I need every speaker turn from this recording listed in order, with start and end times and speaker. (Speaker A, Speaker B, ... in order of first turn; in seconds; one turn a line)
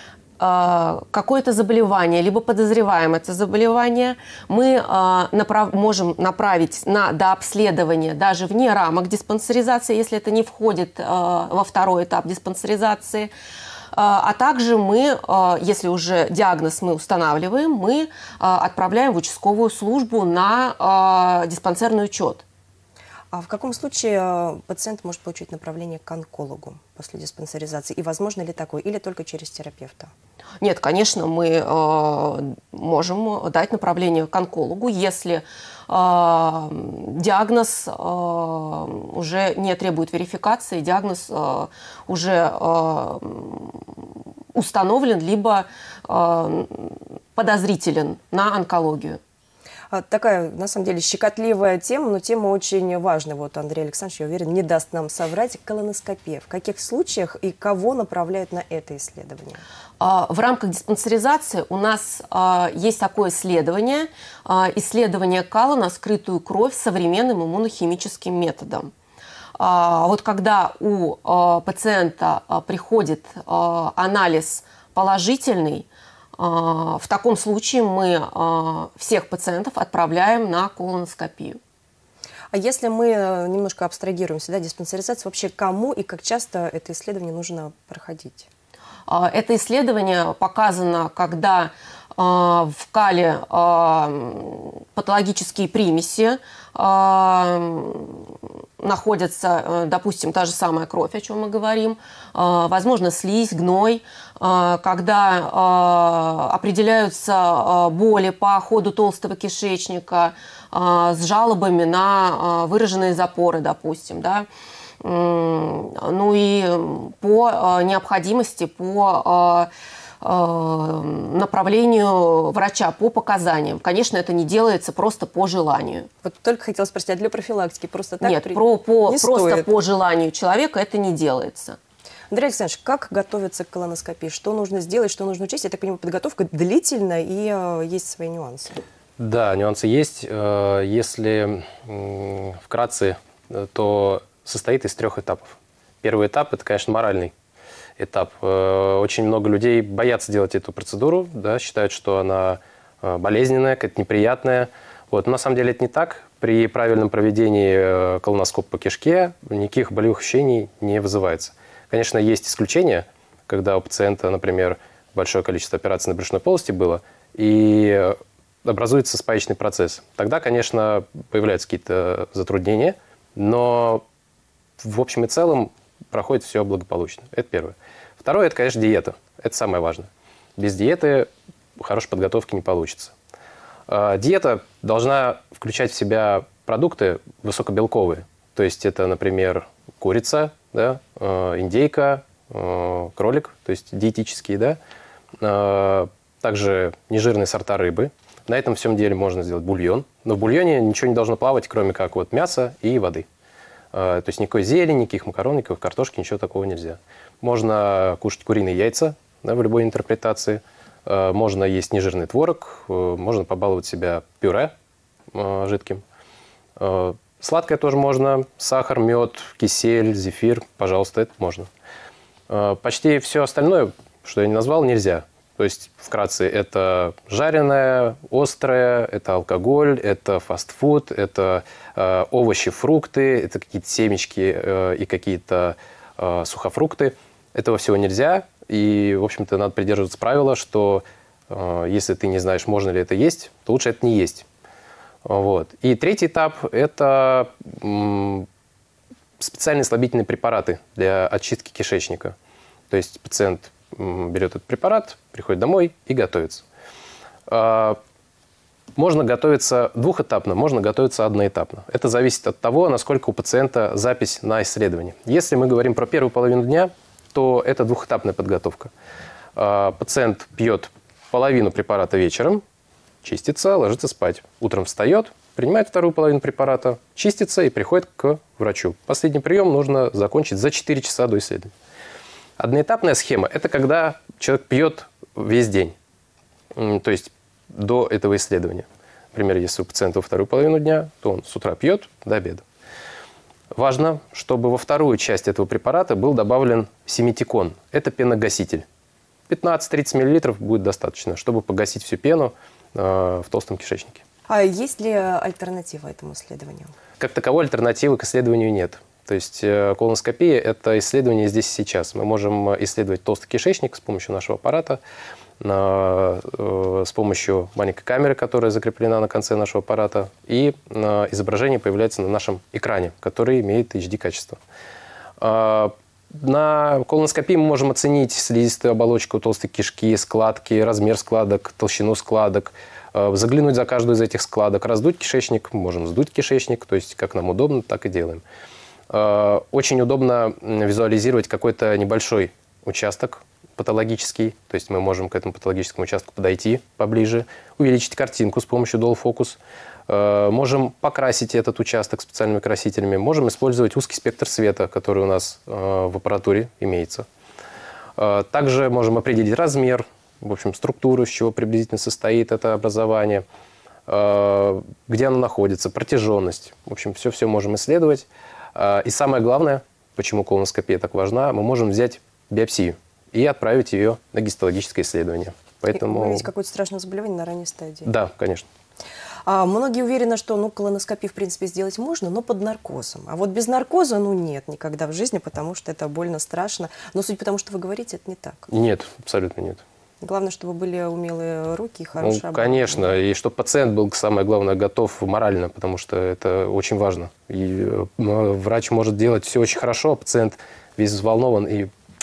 Speaker A: 0.4-13.3
Speaker A: 13.9-22.4
Speaker B: 23.3-30.1
Speaker A: 30.6-49.2
Speaker B: 49.9-59.6
Speaker A: 60.0-68.9
Speaker A: 69.6-81.6
Speaker B: 82.5-88.5
Speaker A: 89.1-114.5
Speaker A: 115.0-119.7
Speaker A: 120.2-126.1
Speaker B: 126.2-129.8
Speaker A: 128.2-131.8
Speaker B: 132.3-138.8
Speaker C: 139.2-147.3
Speaker C: 148.0-174.0
Speaker C: 174.8-183.1
Speaker C: 183.9-194.8
Speaker C: 195.4-203.3
Speaker C: 203.9-214.7
Speaker C: 215.3-216.0
Speaker C: 216.8-221.7
Speaker C: 222.5-244.4
Speaker C: 245.2-248.5
Speaker C: 249.4-252.3
Speaker C: 252.9-256.6
Speaker C: 257.5-258.0
Speaker C: 258.9-268.9
Speaker C: 269.6-272.6
Speaker C: 273.2-281.7
Speaker C: 282.6-285.9
Speaker C: 286.7-292.6
Speaker C: 293.7-298.9
Speaker C: 299.5-304.2
Speaker B: 304.5-306.9
Speaker C: 307.2-315.0
Speaker C: 315.6-324.6
Speaker C: 325.4-338.4
Speaker C: 339.1-357.2
Speaker C: 358.2-363.4
Speaker C: 364.1-376.5
Speaker B: 375.9-378.1
Speaker C: 378.0-378.7
Speaker B: 379.4-388.7
Speaker C: 388.7-389.8
Speaker B: 390.2-393.1
Speaker C: 392.2-401.9